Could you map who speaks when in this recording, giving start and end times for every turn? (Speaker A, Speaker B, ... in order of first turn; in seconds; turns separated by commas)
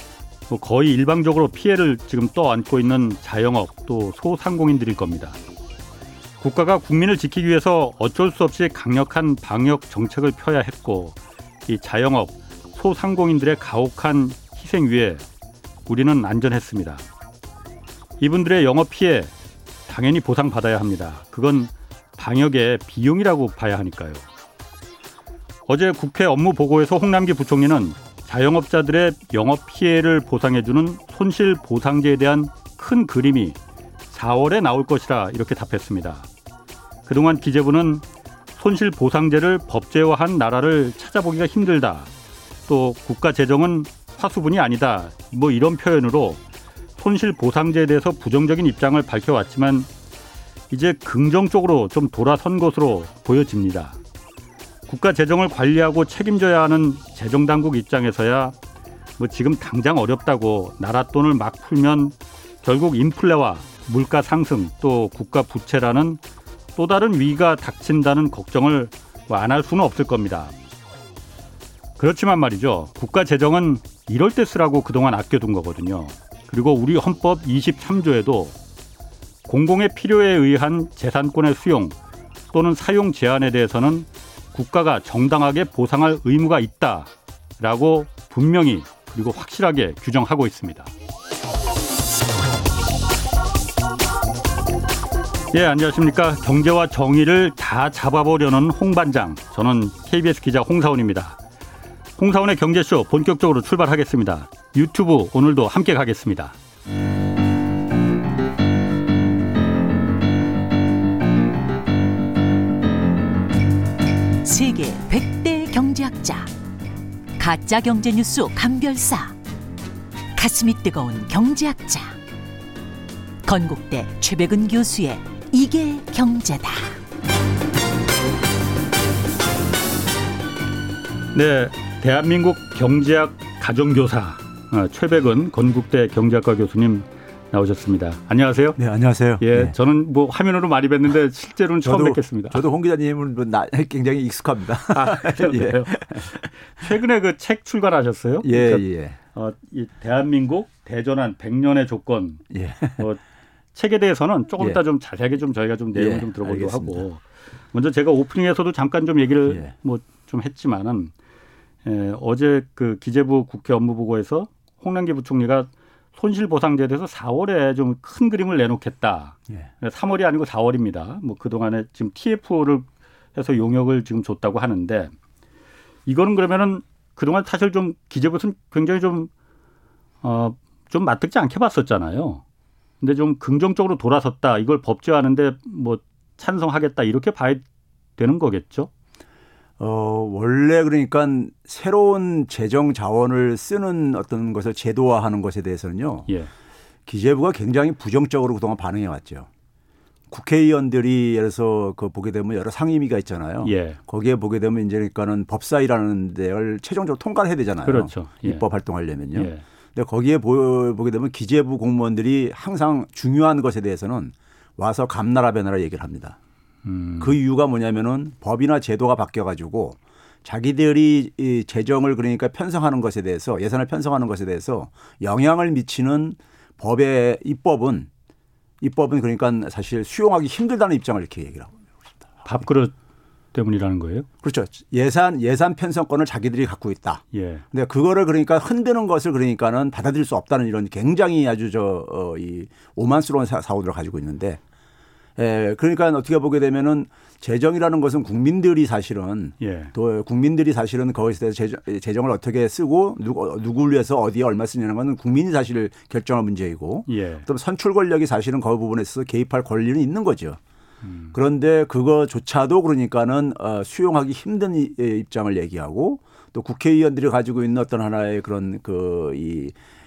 Speaker A: 0.5-5.4, Speaker A: 6.4-15.2, Speaker A: 15.9-17.0, Speaker A: 18.2-19.3, Speaker A: 19.9-24.2, Speaker A: 25.7-33.6, Speaker A: 34.1-36.3, Speaker A: 37.0-38.0, Speaker A: 38.5-42.1, Speaker A: 42.7-46.4, Speaker A: 47.0-49.9, Speaker A: 50.7-54.0, Speaker A: 54.9-58.5, Speaker A: 59.2-66.2, Speaker A: 66.8-70.5, Speaker A: 72.0-78.5, Speaker A: 79.5-82.0, Speaker A: 82.5-90.9, Speaker A: 95.5-101.4, Speaker A: 102.2-106.5, Speaker B: 114.4-116.5, Speaker B: 117.4-119.3, Speaker B: 120.3-122.2, Speaker B: 123.4-127.0, Speaker A: 131.3-138.8, Speaker C: 138.8-139.7, Speaker A: 139.4-142.6, Speaker C: 141.8-146.4, Speaker A: 144.9-153.2, Speaker C: 148.4-149.2, Speaker C: 152.5-153.0, Speaker A: 153.7-161.1, Speaker C: 155.9-157.0, Speaker A: 161.8-175.1, Speaker A: 176.1-179.3, Speaker A: 180.2-182.4, Speaker A: 183.0-187.6, Speaker A: 188.2-188.9, Speaker C: 189.8-196.3, Speaker C: 197.1-199.5, Speaker C: 200.3-216.4, Speaker A: 203.6-204.0, Speaker A: 207.8-208.6, Speaker A: 209.3-209.6, Speaker A: 216.8-217.4, Speaker C: 217.2-228.1, Speaker C: 228.8-231.8, Speaker A: 232.4-232.9, Speaker A: 233.5-234.3, Speaker C: 234.4-244.6, Speaker A: 237.3-237.6, Speaker C: 245.4-260.6, Speaker A: 249.6-249.9, Speaker A: 257.1-257.5, Speaker A: 261.0-261.4, Speaker C: 261.3-269.7